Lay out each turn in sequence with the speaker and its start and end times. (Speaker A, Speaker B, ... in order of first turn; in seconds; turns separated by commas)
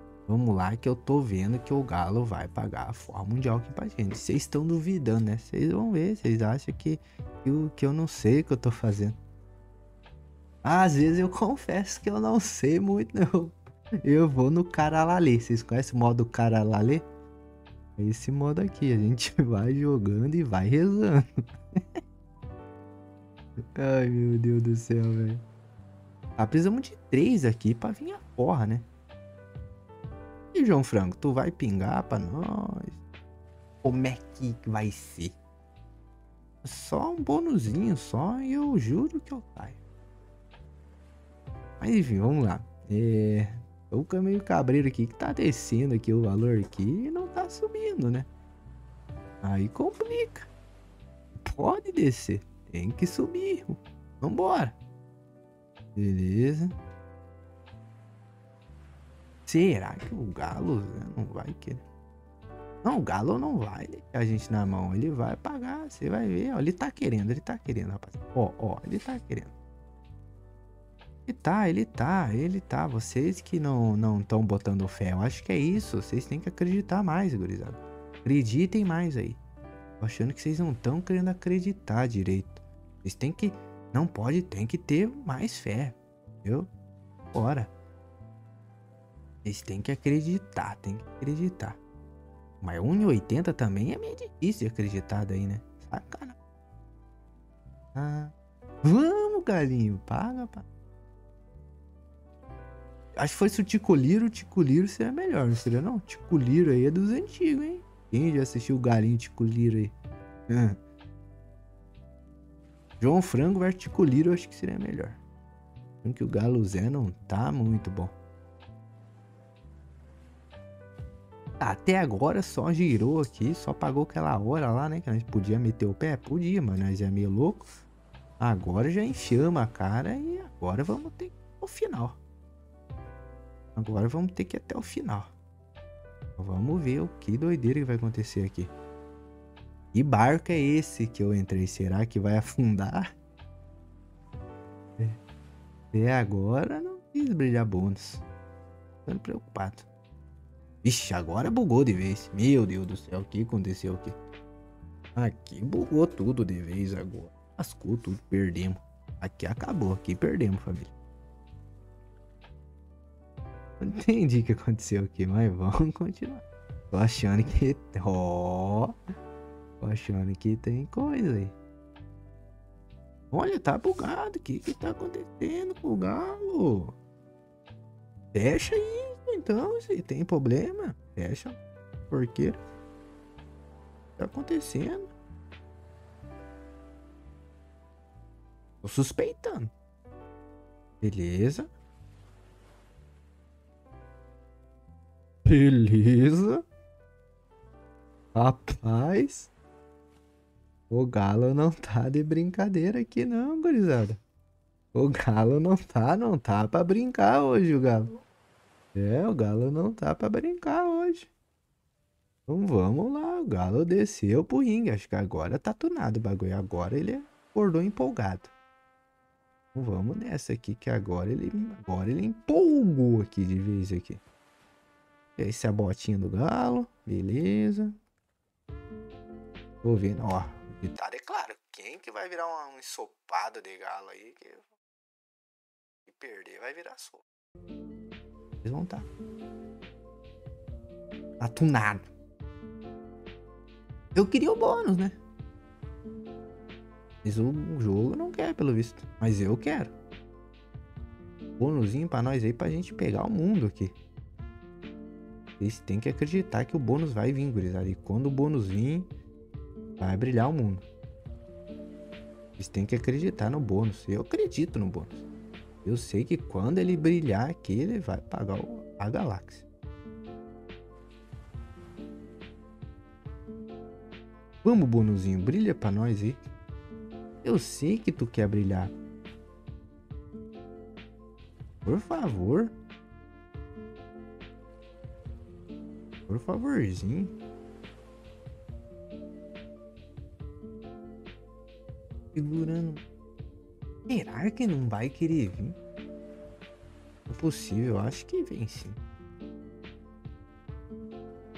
Speaker A: 0.3-9.2, Speaker A: 10.6-17.1, Speaker A: 18.0-21.2, Speaker A: 23.8-25.4, Speaker A: 26.4-28.9, Speaker A: 30.5-33.0, Speaker A: 33.8-35.4, Speaker A: 36.6-39.8, Speaker A: 41.8-48.3, Speaker A: 49.4-50.5, Speaker A: 51.4-54.8, Speaker A: 55.9-56.8, Speaker A: 59.5-61.8, Speaker A: 62.8-69.5, Speaker A: 71.3-79.4, Speaker A: 80.0-86.7, Speaker A: 87.3-87.7, Speaker A: 89.4-91.8, Speaker A: 92.6-96.4, Speaker A: 97.9-100.6, Speaker A: 103.2-109.9, Speaker A: 110.5-110.8, Speaker A: 113.0-115.2, Speaker A: 116.0-118.1, Speaker A: 121.6-127.7, Speaker A: 128.4-132.2, Speaker A: 133.8-135.3, Speaker A: 136.4-138.7, Speaker A: 139.9-143.1, Speaker A: 145.9-148.2, Speaker A: 149.1-149.9, Speaker A: 150.8-154.1, Speaker A: 155.2-160.9, Speaker A: 163.8-168.9, Speaker A: 169.8-171.6, Speaker A: 173.3-176.9, Speaker A: 178.3-181.6, Speaker A: 182.1-182.6, Speaker A: 184.2-185.1, Speaker A: 188.8-189.7, Speaker A: 191.0-191.7, Speaker A: 195.4-196.6, Speaker A: 198.3-199.5, Speaker A: 200.9-204.2, Speaker A: 204.9-208.1, Speaker A: 208.9-211.3, Speaker A: 212.5-218.5, Speaker A: 219.7-224.2, Speaker A: 225.4-227.9, Speaker A: 229.8-234.7, Speaker A: 236.1-237.2, Speaker A: 238.6-239.1, Speaker A: 241.4-242.1, Speaker A: 244.1-245.2, Speaker A: 247.2-249.9, Speaker A: 251.6-253.9, Speaker A: 255.6-259.1, Speaker A: 260.0-260.8, Speaker A: 262.6-265.2, Speaker A: 265.8-269.6, Speaker A: 274.6-276.4, Speaker A: 277.4-278.9, Speaker A: 281.9-282.7, Speaker A: 286.3-287.3, Speaker A: 292.3-293.0, Speaker A: 294.1-295.8, Speaker A: 297.3-299.0